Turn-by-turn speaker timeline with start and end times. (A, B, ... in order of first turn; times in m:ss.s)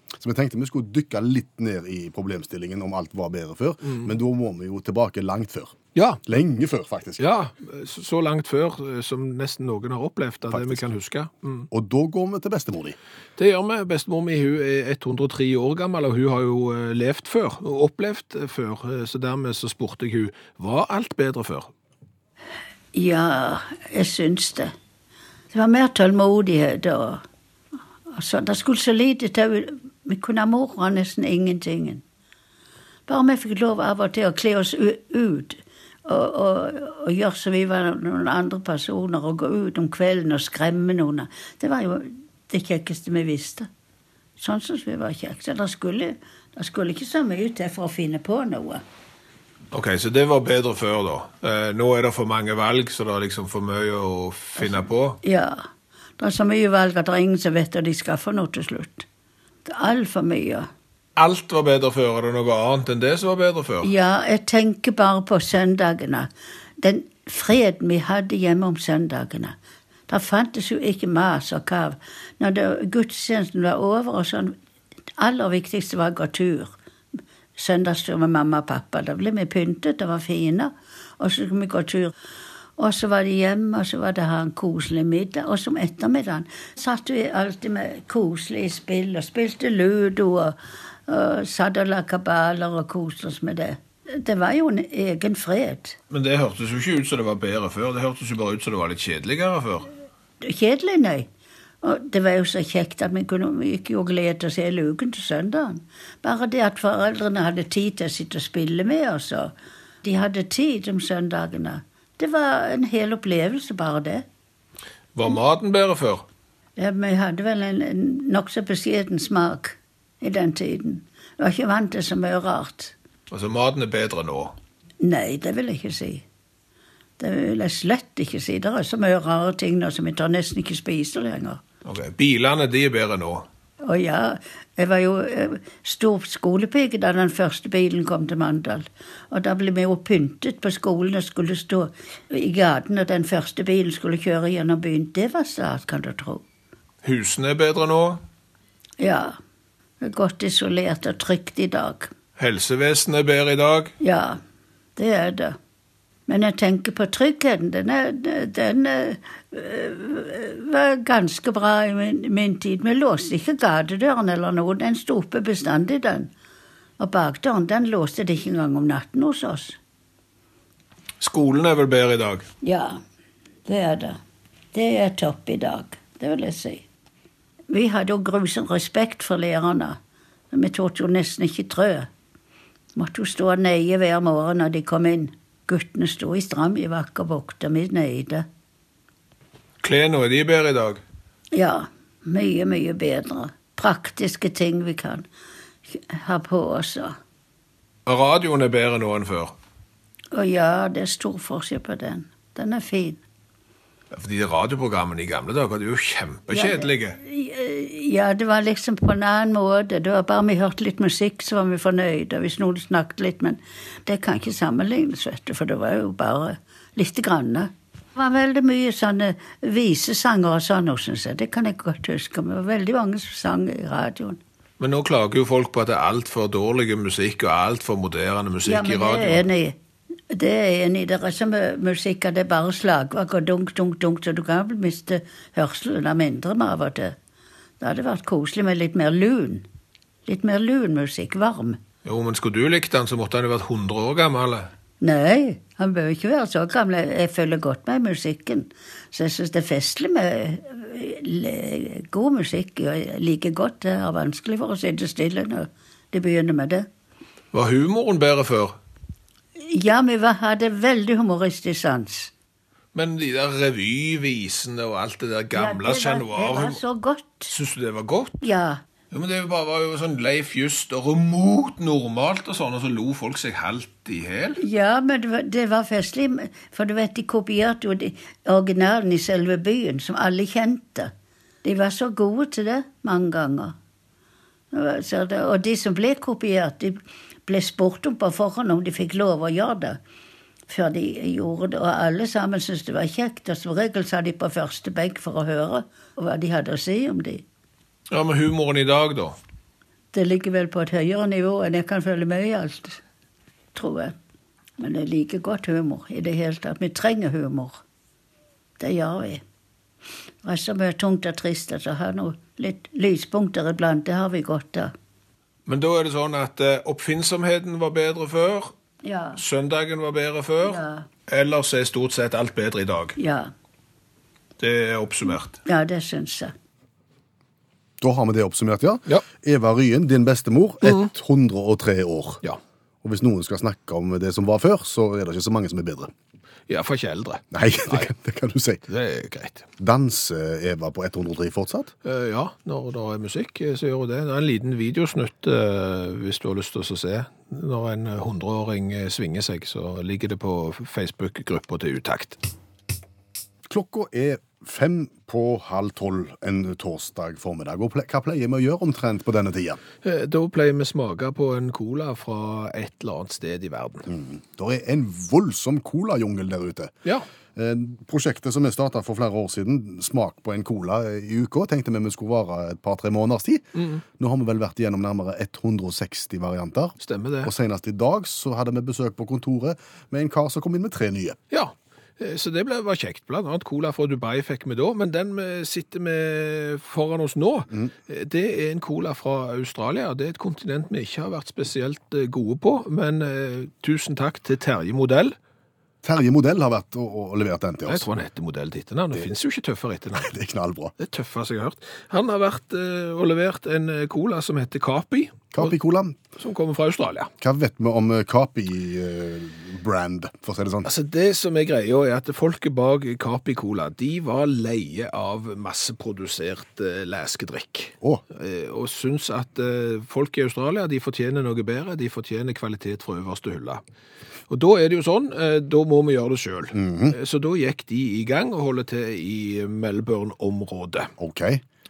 0:00.2-0:07.2 A
0:03.8-0:04.1 B
0:06.0-0:06.2 B
0:07.2-0:11.7 B
0:10.5-0:10.8 A
0:11.7-0:13.0 A
0:13.4-0:21.7 B
0:22.9-0:24.7 C
0:25.5-0:27.2 C
0:28.1-0:32.0 C
0:33.1-0:43.7 C
0:44.4-0:48.8 C
0:49.7-0:55.2 B
0:54.6-0:55.6 C
0:56.2-0:59.1 C
0:59.6-1:00.7 C
1:01.2-1:03.9 B
1:03.8-1:09.6 C
1:10.1-1:14.6 C
1:15.2-1:16.7 C
1:17.6-1:22.1 C
1:22.8-1:36.0 C
1:36.1-1:39.9 B
1:40.4-1:41.3 C
1:41.8-1:54.2 C
1:55.2-1:56.2 B
1:56.8-2:03.0 C
2:03.3-2:04.6 B
2:05.0-2:06.2 C
2:07.2-2:11.6 C
2:11.8-2:13.5 B
2:13.8-2:26.4 C
2:27.0-2:28.2 B
2:29.0-2:29.4 C
2:30.0-2:32.1 C
2:32.4-2:33.9 B
2:34.0-2:34.4 C
2:35.0-2:35.6 C
2:36.3-2:46.3 C
2:47.0-2:49.8 C
2:51.2-2:52.5 B
2:52.6-2:53.0 C
2:53.7-2:54.2 C
2:54.7-2:56.8 C
2:57.7-3:00.0 C
3:00.5-3:02.1 C
3:03.0-3:08.5 C
3:09.8-3:11.0 B
3:11.5-3:15.3 C
3:15.9-3:17.2 C
3:18.1-3:19.5 B
3:20.3-3:23.2 C
3:24.1-3:27.2 B
3:26.5-3:44.4 C
3:44.8-3:49.5 B
3:48.7-3:49.8 C
3:50.3-3:57.2 C
3:57.8-3:59.7 C
4:00.3-4:01.8 C
4:02.0-4:04.7 B
4:05.0-4:16.9 C
4:17.5-4:18.8 B
4:19.6-4:22.3 C
4:22.9-4:26.8 B
4:25.5-4:27.5 C
4:27.5-4:28.4 B
4:28.4-4:28.8 C
4:29.1-4:34.6 B
4:34.6-4:41.1 C
4:41.6-4:43.8 C
4:44.7-4:50.0 C
4:50.7-4:57.4 C
4:58.1-4:59.4 B
5:00.1-5:03.0 C
5:03.8-5:04.2 C
5:04.8-5:07.8 C
5:08.8-5:09.4 C
5:10.4-5:14.9 C
5:15.7-5:18.7 B
5:19.0-5:19.4 C
5:19.4-5:23.2 B
5:20.6-5:21.1 C
5:23.2-5:23.5 C
5:24.6-5:25.6 B
5:25.6-5:26.5 C
5:28.0-5:32.4 A
5:30.8-5:31.1 B
5:33.0-5:36.1 A
5:36.7-5:38.1 B
5:37.5-5:38.8 A
5:38.9-5:39.7 B
5:39.8-5:41.9 A
5:42.0-5:52.4 B
5:53.7-5:59.8 A
6:00.0-6:04.1 B
6:04.1-6:06.9 A
6:07.6-6:13.7 A
6:13.8-6:14.0 B
6:14.2-6:21.4 A
6:17.0-6:17.5 B
6:21.5-6:35.4 B
6:36.0-6:38.1 A
6:37.9-6:40.3 B
6:40.2-6:40.9 A
6:41.0-6:45.8 B
6:45.5-6:46.2 A
6:46.4-6:47.3 B
6:47.4-6:50.9 A
6:50.8-7:03.8 B
7:04.5-7:11.1 B
7:06.7-7:07.2 A
7:11.2-7:11.6 A